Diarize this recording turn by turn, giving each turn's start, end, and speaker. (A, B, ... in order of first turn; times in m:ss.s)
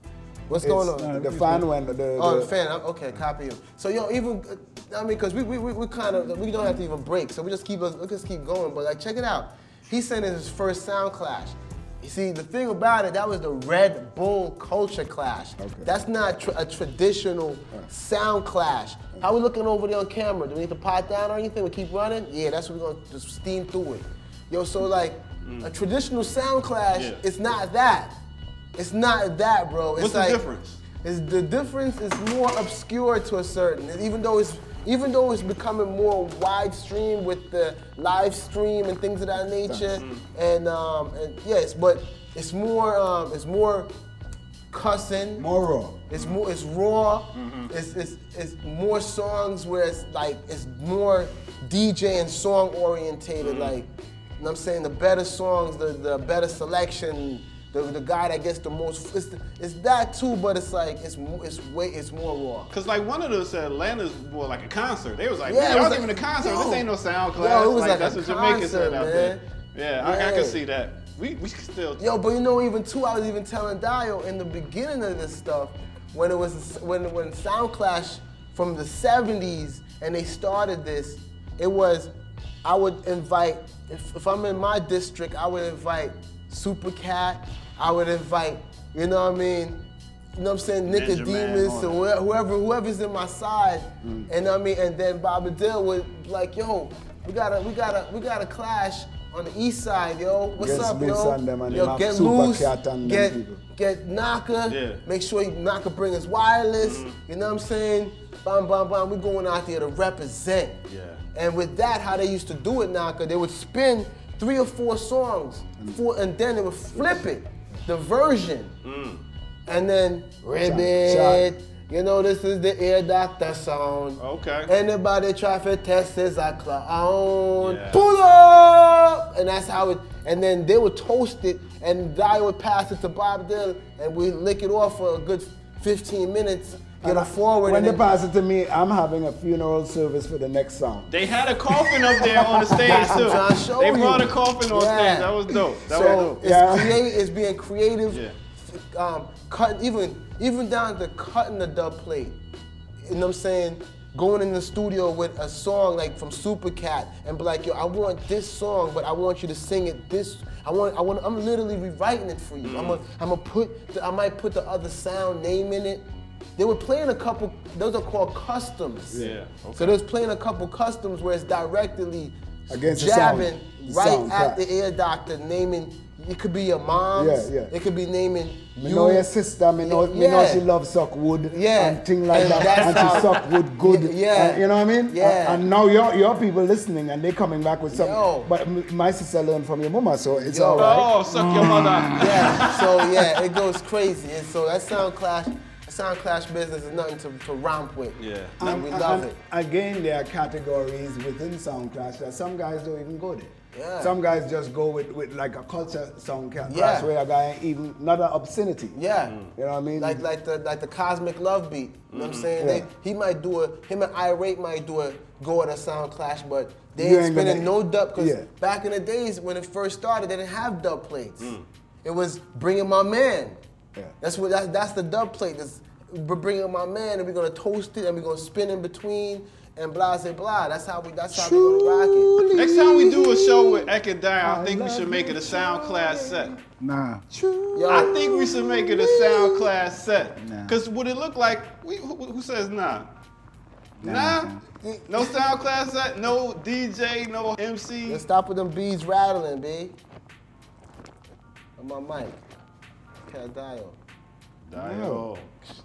0:00.5-0:01.1 A
0:00.6-0:02.5 B
0:01.0-0:01.7 C
0:02.2-0:28.2 A
0:15.6-0:15.9 B
0:25.4-0:25.7 D
0:26.9-0:27.2 D
0:28.7-0:30.4 A
0:30.0-0:30.8 D
0:31.0-0:43.9 A
0:39.6-0:40.0 B
0:40.0-0:40.2 D
0:44.7-0:45.5 A
0:45.4-0:46.0 B
0:46.1-1:02.7 A
0:47.3-0:47.7 D
0:53.4-0:53.7 D
1:02.7-1:12.0 D
1:05.4-1:09.4 A
1:10.0-1:10.6 A
1:12.0-1:22.1 A
1:22.6-1:29.8 A
1:30.3-1:50.8 A
1:30.8-1:32.0 D
1:34.0-1:34.3 B
1:40.6-1:43.6 B
1:41.7-1:42.0 D
1:44.7-1:45.0 D
1:46.8-1:47.2 D
1:50.9-1:51.2 D
1:51.3-1:58.7 A
1:58.8-1:59.2 D
1:59.6-2:18.0 A
2:00.6-2:01.5 B
2:04.2-2:04.7 D
2:07.6-2:08.0 D
2:17.0-2:21.2 B
2:21.1-2:26.4 D
2:21.7-2:23.3 B
2:22.8-2:32.4 A
2:26.4-2:27.1 B
2:28.1-2:28.3 D
2:33.0-2:49.2 A
2:42.6-2:43.0 D
2:49.1-2:49.4 B
2:49.2-2:50.0 D
2:49.8-2:59.3 A
2:52.7-2:54.6 B
2:57.1-2:57.7 B
2:58.8-3:11.1 B
2:59.8-3:00.6 A
3:01.5-3:05.6 A
3:02.4-3:03.3 D
3:07.9-3:08.5 A
3:10.4-3:11.1 A
3:10.7-3:13.1 D
3:11.3-3:12.7 C
3:12.1-3:19.3 A
3:18.2-3:18.6 D
3:18.6-3:29.0 B
3:23.7-3:24.1 A
3:26.7-3:27.1 A
3:28.9-3:29.4 A
3:29.2-3:29.5 D
3:29.5-3:30.2 B
3:30.0-3:43.6 A
3:32.1-3:32.5 D
3:32.6-3:32.9 B
3:37.0-3:38.5 B
3:41.4-3:41.6 D
3:44.2-3:52.3 A
3:51.3-3:56.6 B
3:52.5-3:56.6 D
3:56.8-3:57.2 C
3:57.3-3:59.7 B
3:57.7-3:58.1 A
3:57.9-4:03.1 D
4:00.4-4:00.8 C
4:04.0-4:04.6 C
4:04.0-4:04.5 D
4:05.1-4:08.3 D
4:08.0-4:10.0 A
4:11.8-4:12.4 A
4:13.3-4:14.0 A
4:14.6-4:15.5 D
4:14.7-4:15.3 B